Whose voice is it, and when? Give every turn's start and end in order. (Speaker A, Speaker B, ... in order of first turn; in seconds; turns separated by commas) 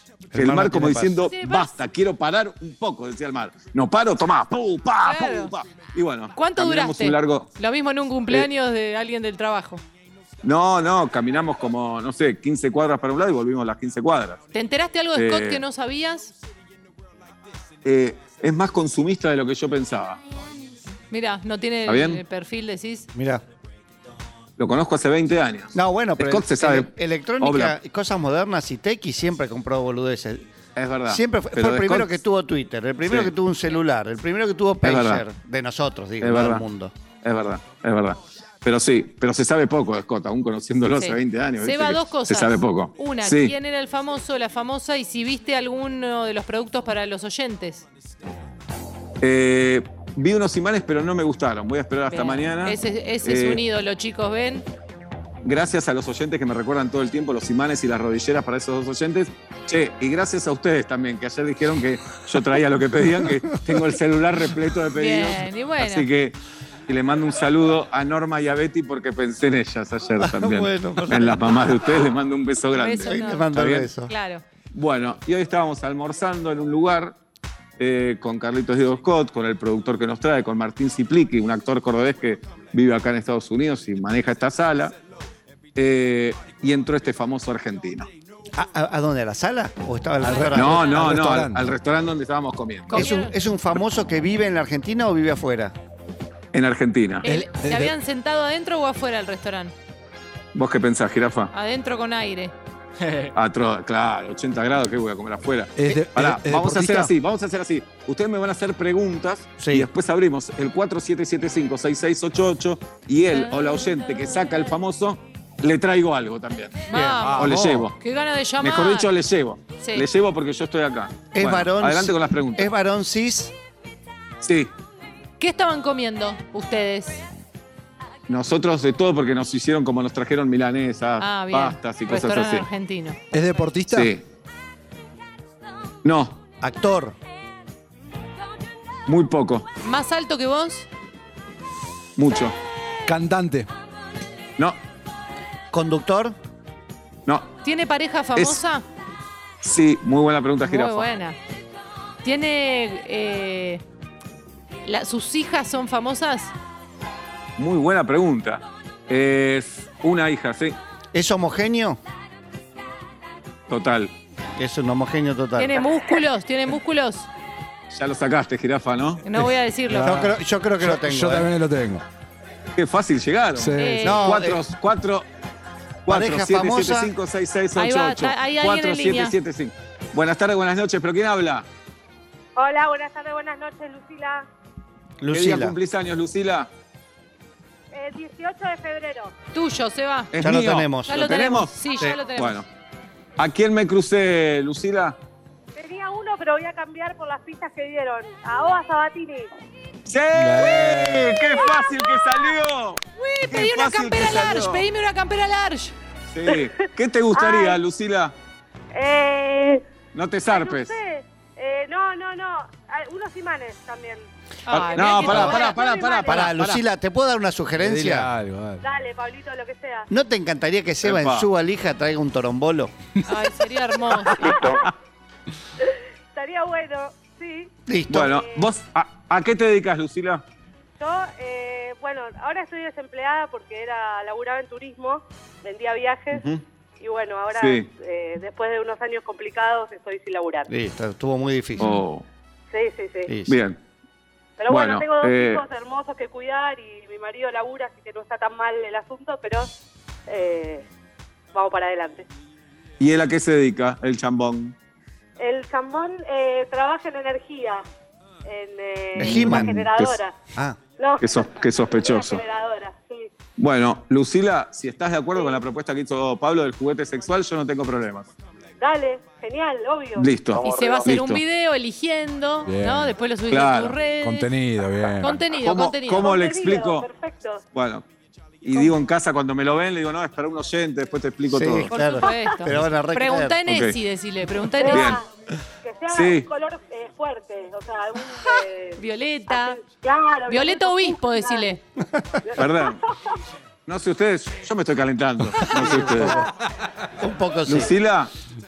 Speaker A: 0.3-1.2, Speaker B: 0.3-7.5, Speaker C: 1.2-1.7, Speaker C: 5.0-5.5, Speaker C: 6.3-9.8, Speaker B: 10.4-14.4, Speaker C: 14.5-16.3, Speaker B: 15.2-15.6, Speaker B: 17.9-20.2, Speaker C: 21.1-23.1, Speaker B: 21.9-22.2, Speaker A: 23.1-23.4, Speaker B: 24.6-27.8, Speaker A: 25.7-30.5, Speaker B: 30.8-32.1, Speaker A: 31.1-36.9, Speaker B: 33.1-33.3, Speaker B: 34.8-35.2, Speaker B: 36.2-36.6, Speaker B: 37.2-43.5, Speaker C: 41.0-47.9, Speaker B: 49.2-53.6, Speaker C: 52.1-54.6, Speaker B: 55.4-66.4, Speaker C: 64.9-66.1, Speaker B: 66.9-73.9, Speaker A: 70.2-71.8, Speaker C: 72.8-73.5, Speaker A: 73.0-74.1, Speaker C: 74.1-74.4, Speaker B: 74.7-77.2, Speaker B: 77.8-84.9, Speaker B: 85.8-88.1, Speaker A: 88.5-91.5, Speaker D: 90.2-91.7, Speaker C: 90.3-91.1, Speaker B: 90.5-93.1, Speaker A: 92.9-95.7, Speaker C: 92.9-93.4, Speaker B: 96.5-97.3, Speaker C: 97.2-99.7, Speaker D: 97.2-97.9, Speaker B: 100.5-101.5, Speaker C: 101.5-102.5, Speaker B: 103.3-117.9, Speaker D: 105.8-107.1, Speaker A: 109.6-109.9, Speaker C: 113.3-114.3, Speaker C: 116.9-119.1, Speaker A: 116.9-117.8, Speaker B: 118.6-122.7, Speaker C: 119.8-120.1, Speaker A: 121.3-123.5, Speaker B: 124.4-124.7, Speaker C: 125.4-127.2, Speaker B: 128.3-132.7, Speaker C: 131.2-133.2, Speaker D: 133.3-134.1, Speaker B: 133.9-134.2, Speaker B: 136.0-136.4, Speaker A: 136.6-137.2, Speaker B: 139.1-139.7, Speaker C: 139.8-140.9, Speaker B: 142.2-142.6, Speaker D: 143.1-143.7, Speaker A: 145.7-146.4, Speaker C: 147.6-148.8, Speaker B: 149.6-151.1, Speaker C: 150.6-151.4, Speaker C: 152.2-153.8, Speaker C: 154.8-156.5, Speaker B: 157.6-160.8, Speaker A: 161.1-162.0, Speaker B: 163.7-164.1, Speaker A: 164.6-165.9, Speaker C: 165.6-167.3, Speaker B: 167.9-169.2, Speaker C: 169.2-170.2, Speaker D: 169.9-172.0, Speaker A: 170.0-171.5, Speaker B: 172.8-175.3, Speaker D: 173.6-174.3, Speaker C: 173.8-174.2, Speaker A: 174.0-174.6, Speaker B: 176.1-181.7, Speaker A: 176.1-177.1, Speaker C: 177.8-179.4, Speaker E: 182.6-184.5, Speaker A: 185.2-185.8, Speaker B: 185.3-186.7, Speaker E: 187.9-189.3, Speaker C: 189.5-190.3, Speaker B: 190.3-192.7, Speaker A: 190.4-191.4, Speaker C: 191.1-192.6, Speaker B: 193.4-195.2, Speaker E: 195.8-199.5, Speaker B: 200.1-204.8, Speaker D: 200.3-201.4, Speaker C: 200.7-201.0, Speaker E: 201.5-202.5, Speaker C: 203.2-205.9, Speaker B: 206.3-208.3, Speaker E: 207.3-207.8, Speaker E: 208.9-209.8, Speaker B: 210.1-210.9, Speaker E: 210.5-214.2, Speaker C: 214.7-215.7, Speaker B: 214.7-216.8, Speaker E: 214.8-216.5, Speaker A: 215.3-215.5, Speaker A: 216.3-218.3, Speaker D: 217.8-218.8, Speaker E: 218.8-220.1, Speaker A: 220.1-222.9, Speaker B: 221.0-221.5, Speaker C: 223.3-224.7, Speaker E: 224.3-224.9, Speaker B: 224.4-224.9, Speaker E: 225.8-228.7, Speaker A: 227.9-228.3, Speaker B: 228.1-230.4, Speaker E: 231.0-236.4, Speaker E: 237.0-240.7, Speaker B: 237.6-237.9, Speaker A: 240.7-242.0, Speaker B: 241.8-242.2, Speaker E: 242.7-243.3, Speaker A: 243.3-243.6, Speaker B: 243.5-243.8, Speaker E: 244.6-249.7, Speaker B: 244.7-245.6, Speaker E: 250.3-250.9, Speaker E: 251.5-252.2, Speaker B: 253.0-254.8, Speaker E: 255.4-257.8, Speaker E: 258.5-260.3, Speaker A: 259.2-259.9, Speaker B: 259.2-260.2, Speaker E: 261.0-263.3, Speaker B: 261.2-262.4, Speaker B: 263.6-268.3, Speaker E: 265.4-265.6, Speaker E: 268.8-271.0, Speaker B: 270.2-271.4, Speaker C: 270.6-274.5, Speaker D: 272.7-273.1, Speaker B: 273.5-274.0, Speaker D: 274.2-275.4, Speaker C: 275.2-276.4, Speaker B: 275.6-277.1, Speaker E: 276.2-277.6, Speaker B: 277.7-278.0, Speaker B: 278.6-281.9, Speaker A: 281.5-283.6, Speaker C: 281.9-285.2, Speaker B: 283.7-284.0, Speaker E: 284.8-285.3, Speaker B: 284.9-285.2, Speaker E: 285.8-291.8, Speaker B: 286.1-286.5, Speaker C: 289.0-289.8, Speaker C: 290.5-291.8, Speaker A: 292.0-292.4, Speaker E: 292.4-293.3, Speaker B: 292.6-293.0, Speaker B: 293.9-296.4, Speaker A: 295.7-296.5, Speaker A: 297.2-297.9, Speaker B: 297.7-298.3